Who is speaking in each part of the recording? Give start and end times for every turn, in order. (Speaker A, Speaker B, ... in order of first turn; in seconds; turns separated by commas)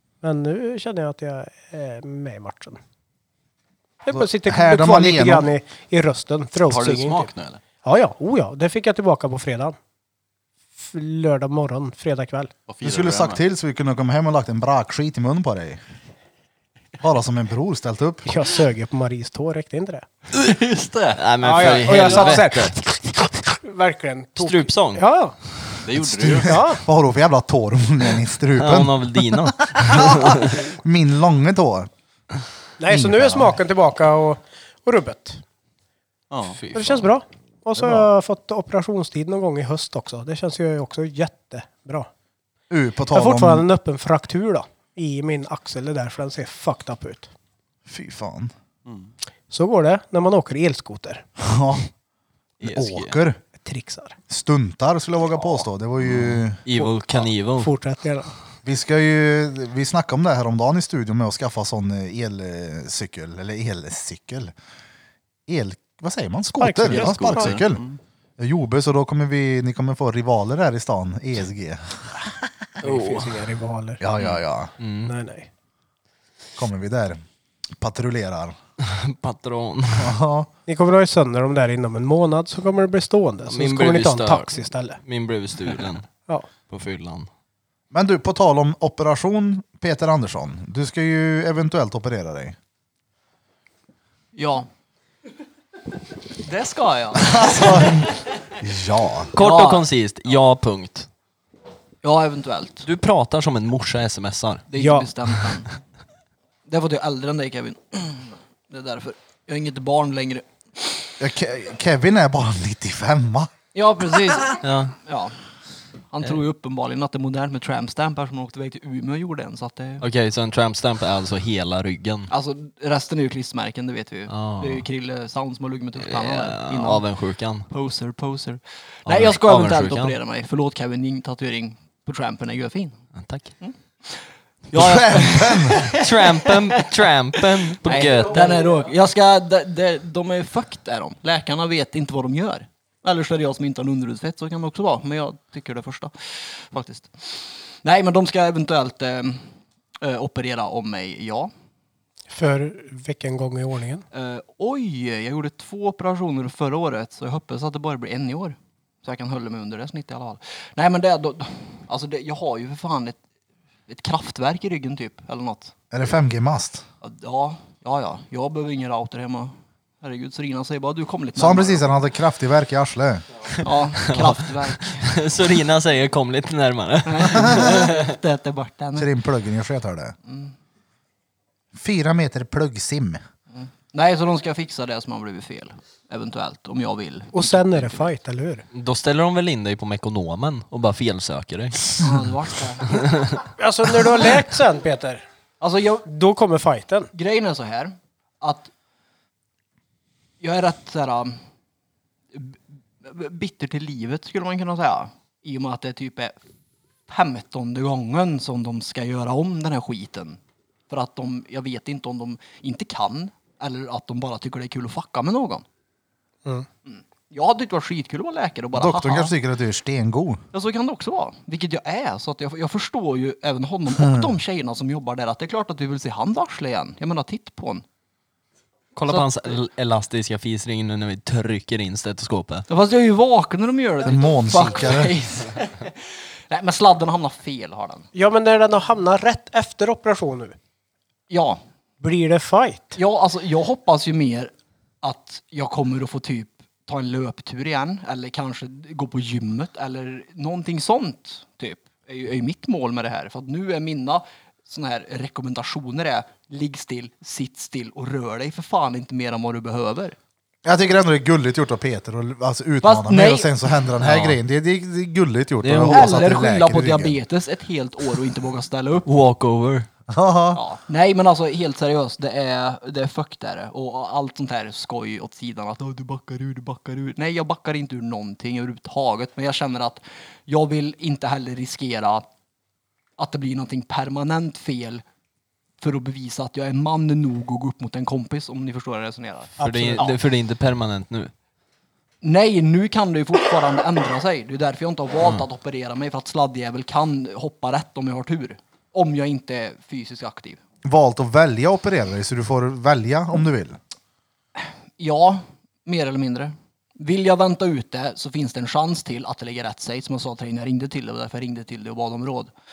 Speaker A: 0.2-2.8, Speaker A: 4.0-7.3, Speaker B: 4.1-5.5, Speaker C: 6.6-7.6, Speaker A: 7.8-9.8, Speaker A: 10.8-12.5, Speaker C: 12.7-13.4, Speaker B: 12.8-15.8, Speaker B: 17.0-18.3, Speaker A: 18.3-20.1, Speaker C: 20.3-22.2, Speaker D: 21.2-22.8, Speaker A: 21.4-25.4, Speaker D: 24.4-25.0, Speaker C: 25.8-26.5, Speaker B: 26.0-31.9, Speaker A: 26.4-26.8, Speaker D: 28.6-30.7, Speaker A: 32.8-35.4, Speaker B: 32.9-33.6, Speaker C: 36.3-36.6, Speaker D: 36.6-37.0, Speaker A: 36.7-42.1, Speaker B: 42.7-43.7, Speaker A: 43.1-47.3, Speaker B: 47.9-48.5, Speaker A: 49.5-51.2, Speaker B: 51.4-51.9, Speaker D: 52.6-53.1, Speaker B: 52.6-53.4, Speaker A: 53.6-54.2, Speaker B: 54.3-56.6, Speaker D: 56.6-57.7, Speaker A: 56.7-58.3, Speaker B: 58.6-64.5, Speaker B: 65.5-67.8, Speaker A: 66.6-67.6, Speaker C: 66.8-68.0, Speaker B: 68.4-72.5, Speaker A: 72.8-74.0, Speaker D: 72.8-73.4, Speaker B: 74.0-74.7, Speaker D: 74.8-75.1, Speaker A: 75.1-75.5, Speaker B: 76.6-77.2, Speaker B: 77.8-78.6, Speaker D: 78.8-80.1, Speaker B: 80.0-80.5, Speaker A: 80.7-85.0, Speaker D: 83.5-86.1, Speaker D: 86.6-87.3, Speaker B: 87.9-92.6, Speaker E: 94.3-94.7, Speaker E: 96.4-98.0, Speaker B: 97.2-99.3, Speaker D: 99.3-101.1, Speaker E: 99.4-99.8, Speaker E: 102.0-102.9, Speaker D: 102.8-104.7, Speaker E: 104.7-105.7, Speaker A: 104.8-105.1, Speaker E: 106.7-111.1, Speaker B: 111.2-113.5, Speaker E: 113.8-115.4, Speaker D: 114.6-115.0, Speaker E: 116.1-120.0, Speaker D: 120.0-122.3, Speaker E: 122.3-127.1, Speaker D: 124.3-124.9, Speaker D: 126.0-127.7, Speaker E: 127.7-133.0, Speaker D: 129.1-130.2, Speaker D: 133.2-133.5, Speaker E: 133.6-151.5, Speaker B: 134.7-135.8, Speaker D: 135.8-138.6, Speaker A: 152.3-154.1, Speaker E: 154.1-163.2, Speaker E: 163.9-165.7, Speaker B: 165.9-166.8, Speaker E: 167.0-171.8, Speaker B: 171.4-173.2, Speaker E: 173.6-175.3, Speaker D: 174.1-178.2, Speaker E: 177.1-179.1, Speaker B: 179.0-180.1, Speaker E: 180.3-180.5, Speaker B: 181.7-183.2, Speaker E: 183.5-187.9, Speaker A: 187.3-188.7, Speaker D: 188.7-192.1, Speaker E: 192.0-193.1, Speaker D: 192.9-193.4, Speaker A: 193.6-195.2, Speaker E: 195.6-196.1, Speaker A: 196.1-197.1, Speaker E: 197.1-198.7, Speaker E: 200.4-201.4, Speaker E: 202.3-206.3, Speaker E: 207.1-215.7, Speaker E: 216.8-219.3, Speaker B: 218.7-220.4, Speaker E: 220.5-227.8, Speaker B: 224.0-224.3, Speaker D: 228.9-232.7, Speaker E: 232.7-238.1, Speaker B: 234.0-235.2, Speaker A: 238.2-240.6, Speaker E: 241.3-241.6, Speaker A: 242.0-243.0, Speaker E: 243.0-260.2, Speaker B: 260.6-267.2, Speaker E: 262.8-263.6, Speaker D: 264.0-264.4, Speaker D: 265.6-266.3, Speaker E: 265.9-269.1, Speaker D: 269.1-269.9, Speaker B: 270.1-270.6, Speaker E: 270.5-282.3, Speaker E: 283.2-285.0, Speaker E: 285.8-290.1, Speaker A: 289.6-290.1, Speaker D: 289.6-291.3, Speaker E: 292.2-300.6, Speaker B: 300.8-303.8, Speaker E: 304.6-312.5